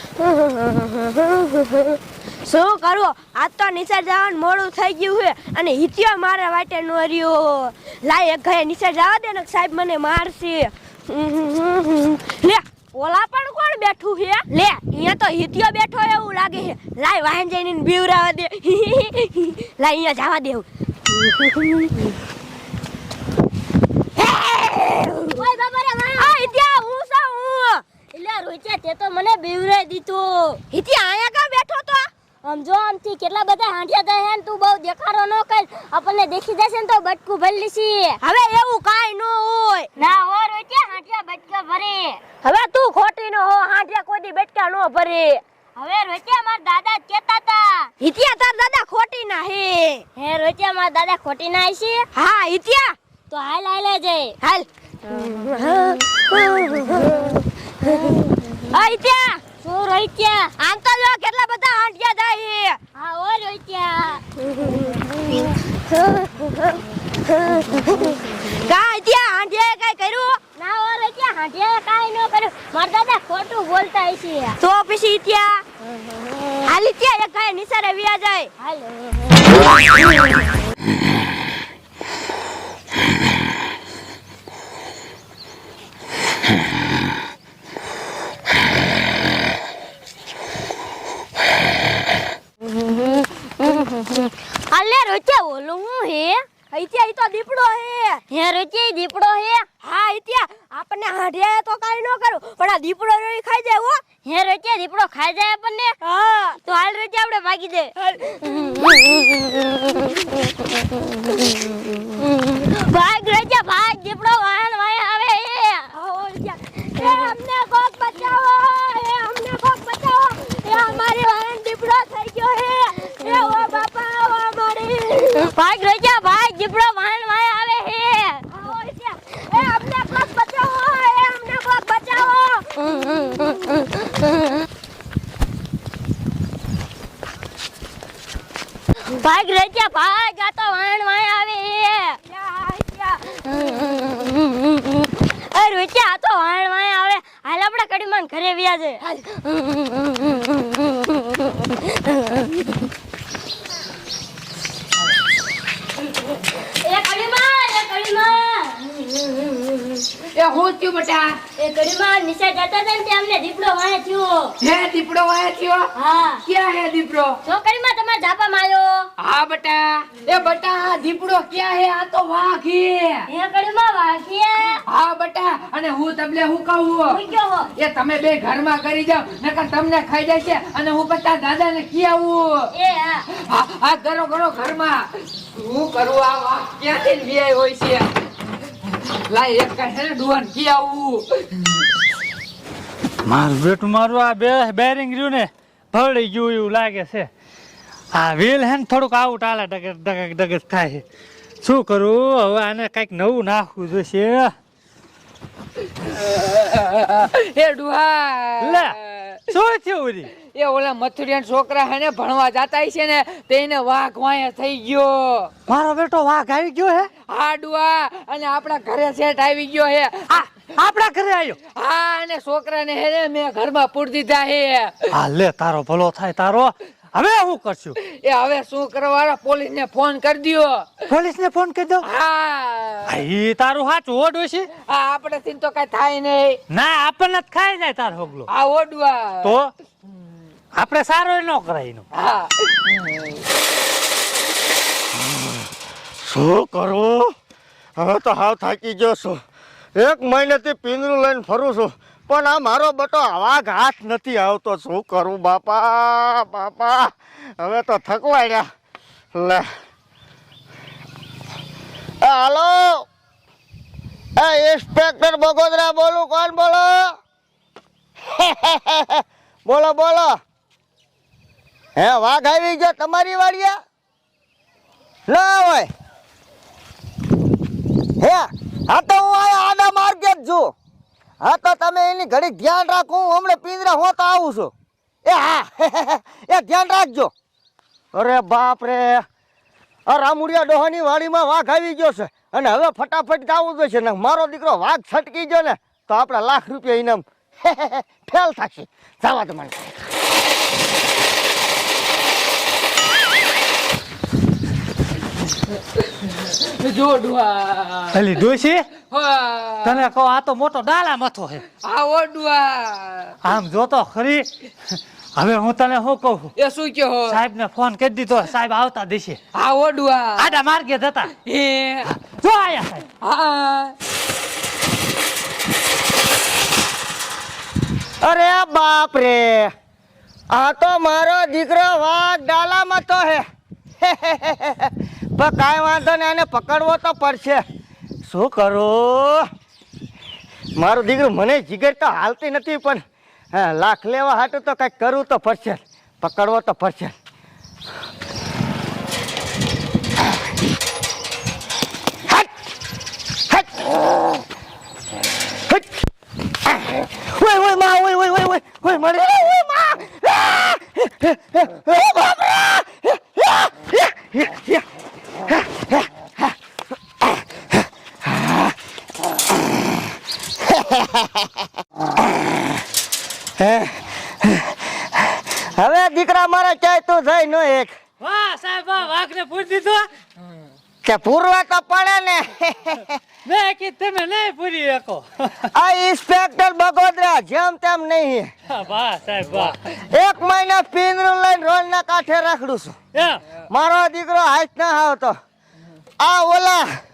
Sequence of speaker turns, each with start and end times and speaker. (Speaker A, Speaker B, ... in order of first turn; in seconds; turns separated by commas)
Speaker A: 0.2-22.1, Speaker A: 24.2-25.4, Speaker B: 25.4-26.4, Speaker A: 26.2-27.8, Speaker B: 28.1-30.6, Speaker A: 30.7-32.1, Speaker B: 32.4-38.2, Speaker A: 38.2-39.9, Speaker B: 40.0-42.4, Speaker A: 42.4-45.4, Speaker B: 45.8-47.9, Speaker A: 48.0-50.0, Speaker B: 50.2-52.1, Speaker A: 52.1-53.0, Speaker B: 53.3-54.4, Speaker A: 54.4-59.4, Speaker B: 57.8-58.2, Speaker B: 59.6-60.5, Speaker A: 60.6-62.8, Speaker B: 63.0-64.3, Speaker A: 64.5-65.5, Speaker A: 67.5-70.4, Speaker B: 70.6-74.6, Speaker A: 74.6-75.6, Speaker B: 76.0-76.4, Speaker A: 76.7-78.5, Speaker B: 78.6-79.6, Speaker B: 92.6-96.5, Speaker A: 96.7-98.2, Speaker B: 98.3-99.7, Speaker A: 99.8-104.0, Speaker B: 104.2-106.0, Speaker A: 106.0-106.6, Speaker B: 106.6-107.8, Speaker A: 108.0-109.1, Speaker B: 108.5-116.0, Speaker A: 116.0-125.5, Speaker B: 117.0-117.3, Speaker B: 125.5-128.5, Speaker A: 128.5-132.8, Speaker B: 132.9-134.0, Speaker B: 139.1-142.2, Speaker A: 142.3-143.4, Speaker B: 143.5-152.9, Speaker B: 156.6-160.1, Speaker C: 160.3-161.4, Speaker B: 161.6-164.6, Speaker C: 164.6-165.9, Speaker B: 165.9-166.4, Speaker C: 166.4-167.4, Speaker B: 167.4-169.1, Speaker C: 169.2-173.3, Speaker B: 173.3-174.8, Speaker C: 174.9-177.2, Speaker B: 177.1-177.7, Speaker C: 177.8-182.7, Speaker B: 182.7-183.3, Speaker C: 183.3-188.1, Speaker C: 188.9-191.7, Speaker D: 193.2-197.3, Speaker D: 198.1-201.0, Speaker D: 201.6-204.5, Speaker C: 206.0-209.4, Speaker D: 208.6-209.0, Speaker D: 209.5-210.3, Speaker C: 210.4-215.5, Speaker D: 215.7-217.1, Speaker C: 217.2-220.6, Speaker D: 220.7-221.6, Speaker C: 221.7-225.1, Speaker D: 225.1-228.0, Speaker C: 228.0-231.0, Speaker D: 231.1-232.1, Speaker C: 232.0-233.2, Speaker D: 233.1-234.7, Speaker C: 234.7-236.6, Speaker D: 236.7-238.5, Speaker C: 238.5-239.5, Speaker D: 239.4-239.7, Speaker D: 240.7-242.1, Speaker C: 242.1-243.3, Speaker E: 245.2-245.6, Speaker E: 246.2-247.3, Speaker E: 248.0-249.4, Speaker E: 250.0-258.7, Speaker E: 259.4-259.7, Speaker E: 262.2-263.1, Speaker E: 264.4-267.1, Speaker E: 268.3-270.4, Speaker E: 272.0-273.8, Speaker E: 275.3-275.9, Speaker E: 278.2-280.7, Speaker E: 281.4-284.7, Speaker E: 285.2-287.3, Speaker E: 288.1-289.2, Speaker E: 290.1-300.1, Speaker C: 305.9-308.2, Speaker D: 308.1-308.9, Speaker C: 309.0-310.0, Speaker D: 309.9-311.7, Speaker C: 311.8-313.4, Speaker D: 313.4-314.5, Speaker D: 315.4-316.5, Speaker C: 316.6-317.4, Speaker D: 317.3-319.4, Speaker C: 319.5-320.5, Speaker D: 320.4-321.4, Speaker C: 321.4-322.1, Speaker D: 322.1-323.1, Speaker C: 323.2-323.9, Speaker E: 328.2-329.7, Speaker E: 330.5-333.4, Speaker E: 334.0-337.6, Speaker E: 338.3-339.5, Speaker E: 340.8-343.0, Speaker E: 343.5-347.1, Speaker E: 353.5-354.0, Speaker E: 356.7-364.8, Speaker E: 365.5-366.5, Speaker E: 368.2-368.7, Speaker E: 370.6-371.5, Speaker E: 372.3-372.7, Speaker E: 373.6-377.9, Speaker D: 378.2-380.1, Speaker E: 381.0-383.2, Speaker D: 383.4-385.7, Speaker E: 385.7-388.5, Speaker D: 388.7-389.8, Speaker E: 389.9-393.0, Speaker D: 393.1-393.4, Speaker E: 393.7-395.4, Speaker E: 396.2-396.9